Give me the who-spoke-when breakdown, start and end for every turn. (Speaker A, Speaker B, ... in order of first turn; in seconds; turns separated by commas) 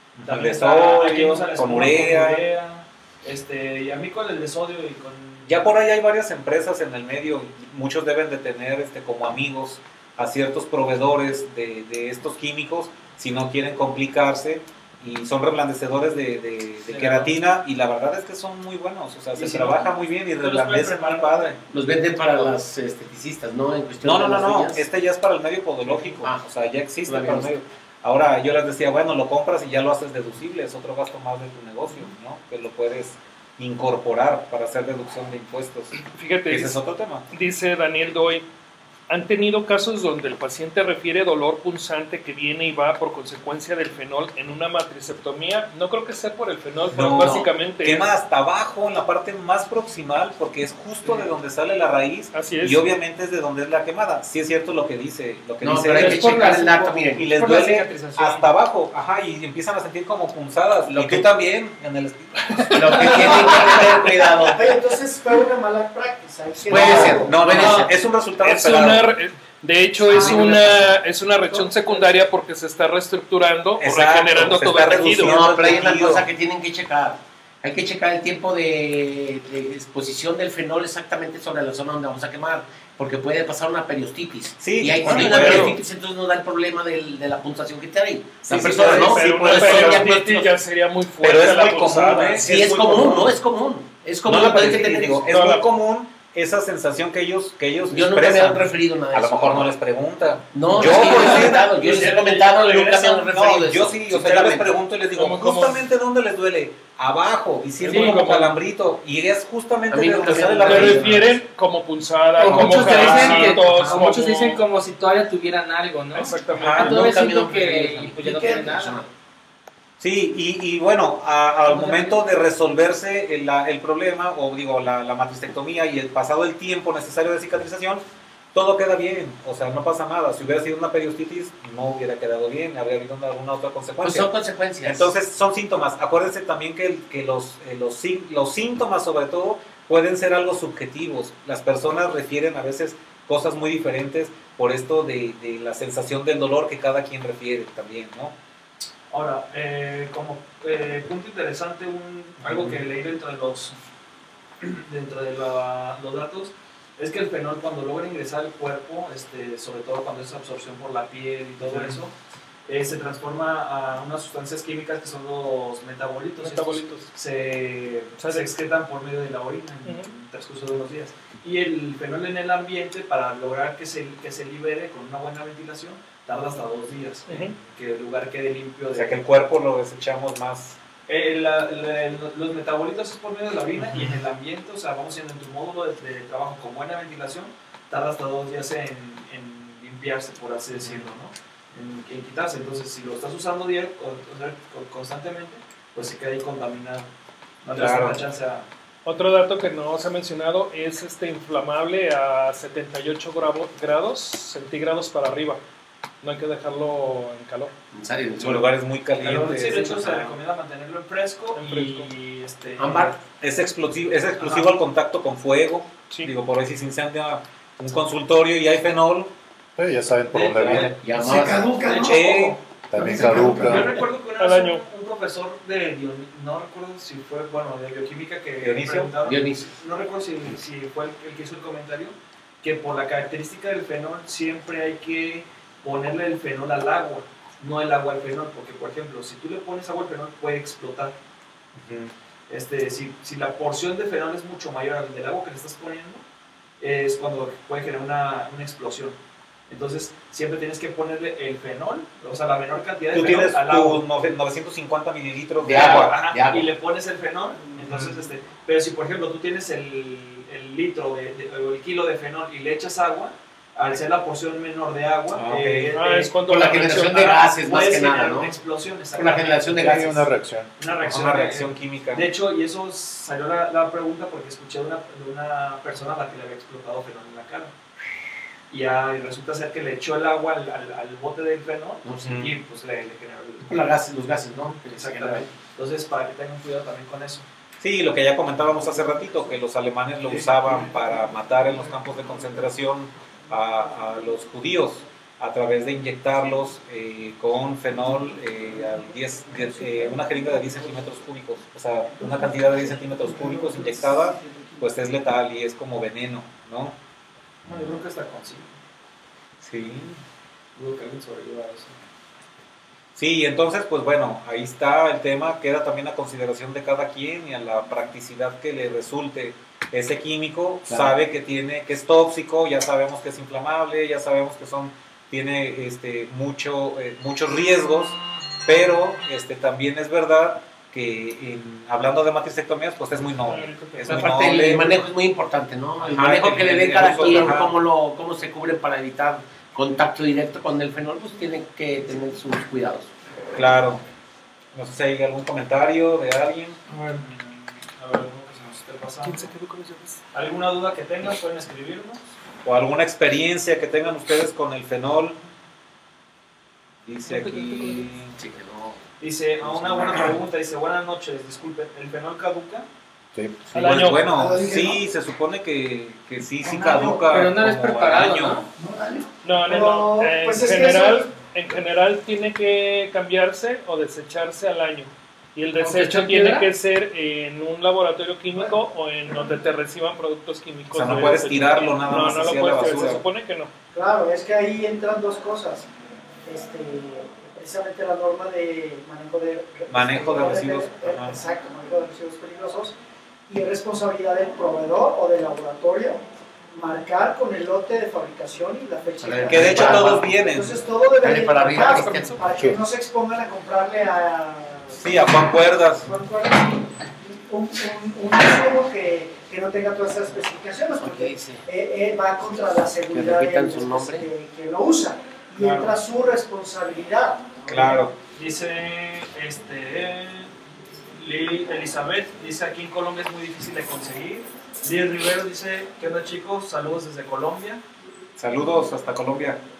Speaker A: 0.2-2.5, Speaker B: 0.2-5.6, Speaker A: 5.5-21.6, Speaker B: 16.9-17.3, Speaker B: 19.3-21.6, Speaker C: 21.7-24.9, Speaker A: 24.0-36.0, Speaker C: 27.1-27.5, Speaker D: 36.0-36.8, Speaker A: 36.5-37.3, Speaker D: 37.3-38.4, Speaker D: 39.1-48.1, Speaker A: 46.9-63.6, Speaker C: 47.2-47.5, Speaker D: 52.3-52.8, Speaker C: 55.6-57.3, Speaker E: 56.0-56.8, Speaker B: 57.4-58.4, Speaker C: 60.9-61.3, Speaker D: 62.4-63.8, Speaker C: 62.7-64.8, Speaker F: 64.5-67.4, Speaker C: 66.6-67.9, Speaker A: 66.7-69.1, Speaker D: 68.4-75.4, Speaker C: 70.1-70.9, Speaker F: 70.2-70.5, Speaker F: 71.5-72.1, Speaker A: 73.8-76.2, Speaker C: 75.1-90.5, Speaker A: 84.6-85.8, Speaker D: 85.0-85.8, Speaker A: 88.4-90.1, Speaker D: 88.8-92.4, Speaker A: 91.2-93.3, Speaker C: 92.4-95.2, Speaker A: 94.2-111.3, Speaker D: 95.3-95.6, Speaker C: 97.9-99.7, Speaker C: 100.5-104.7, Speaker B: 101.0-102.3, Speaker D: 105.1-105.8, Speaker D: 107.8-108.6, Speaker E: 107.9-108.2, Speaker C: 109.9-111.3, Speaker D: 110.6-114.6, Speaker E: 112.4-119.0, Speaker A: 112.4-114.0, Speaker C: 112.5-114.0, Speaker D: 116.1-117.0, Speaker A: 116.5-117.0, Speaker C: 116.7-119.1, Speaker A: 120.0-134.3, Speaker E: 121.7-122.2, Speaker C: 134.0-135.1, Speaker A: 134.8-148.3, Speaker B: 149.1-153.7, Speaker A: 152.4-152.8, Speaker B: 154.6-162.1, Speaker A: 161.7-162.0, Speaker B: 162.7-179.2, Speaker D: 166.4-167.1, Speaker D: 168.2-168.5, Speaker D: 169.8-170.1, Speaker D: 177.3-177.6, Speaker A: 178.9-180.8, Speaker B: 181.1-197.1, Speaker A: 183.8-184.2, Speaker A: 190.8-191.1, Speaker B: 197.6-198.7, Speaker A: 197.7-198.2, Speaker D: 199.0-205.6, Speaker D: 206.2-207.7, Speaker C: 207.9-208.7, Speaker A: 208.4-210.4, Speaker B: 209.2-213.2, Speaker D: 211.6-212.1, Speaker C: 212.8-213.2, Speaker A: 213.4-219.3, Speaker B: 214.4-214.7, Speaker G: 219.8-220.9, Speaker B: 220.3-221.0, Speaker C: 220.6-221.7, Speaker H: 221.1-222.3, Speaker B: 221.7-222.6, Speaker A: 222.0-222.6, Speaker G: 222.9-223.9, Speaker H: 222.9-224.0, Speaker B: 223.2-241.1, Speaker D: 224.4-224.8, Speaker A: 228.6-229.2, Speaker C: 229.2-229.7, Speaker A: 241.8-242.1, Speaker B: 242.5-246.2, Speaker B: 246.8-249.2, Speaker B: 249.7-254.0, Speaker A: 253.1-256.2, Speaker C: 255.6-256.7, Speaker B: 255.7-277.7, Speaker A: 257.8-258.1, Speaker A: 265.3-265.9, Speaker D: 265.9-267.4, Speaker C: 266.4-268.5, Speaker C: 269.1-270.1, Speaker G: 269.8-270.7, Speaker A: 271.0-272.3, Speaker B: 278.7-283.9, Speaker C: 282.0-282.4, Speaker A: 282.2-282.6, Speaker C: 283.6-285.5, Speaker B: 284.9-287.4, Speaker A: 287.8-306.9, Speaker B: 290.2-290.6, Speaker F: 304.3-304.7, Speaker B: 307.7-308.7, Speaker A: 309.6-310.2, Speaker B: 310.8-311.9, Speaker A: 313.1-334.9, Speaker D: 333.4-334.3, Speaker C: 334.0-343.1, Speaker A: 336.0-337.8, Speaker A: 343.5-344.0, Speaker A: 344.7-346.8, Speaker B: 347.1-349.5, Speaker D: 349.2-350.2, Speaker B: 350.3-352.2, Speaker A: 352.6-355.4, Speaker A: 357.0-358.4, Speaker D: 357.3-358.0, Speaker C: 358.3-359.0, Speaker B: 359.2-362.9, Speaker C: 359.6-360.3, Speaker A: 363.7-368.6, Speaker D: 363.7-364.2, Speaker H: 364.2-365.0, Speaker H: 366.6-367.1, Speaker E: 367.1-368.7, Speaker H: 368.7-369.3, Speaker D: 369.4-383.7, Speaker F: 369.6-371.3, Speaker E: 375.8-376.6, Speaker A: 380.9-383.2, Speaker F: 383.9-385.9, Speaker F: 386.4-392.9, Speaker A: 389.9-391.4, Speaker F: 393.5-396.2, Speaker F: 396.8-405.0, Speaker C: 399.2-400.3, Speaker A: 399.5-400.8, Speaker C: 401.2-402.4, Speaker E: 401.9-402.4, Speaker A: 404.9-406.1, Speaker F: 406.0-406.9, Speaker F: 407.5-417.6, Speaker C: 411.0-411.6, Speaker C: 413.1-414.3, Speaker A: 415.6-415.9, Speaker B: 417.6-420.5, Speaker A: 417.7-418.1, Speaker B: 421.2-427.8, Speaker A: 428.4-429.6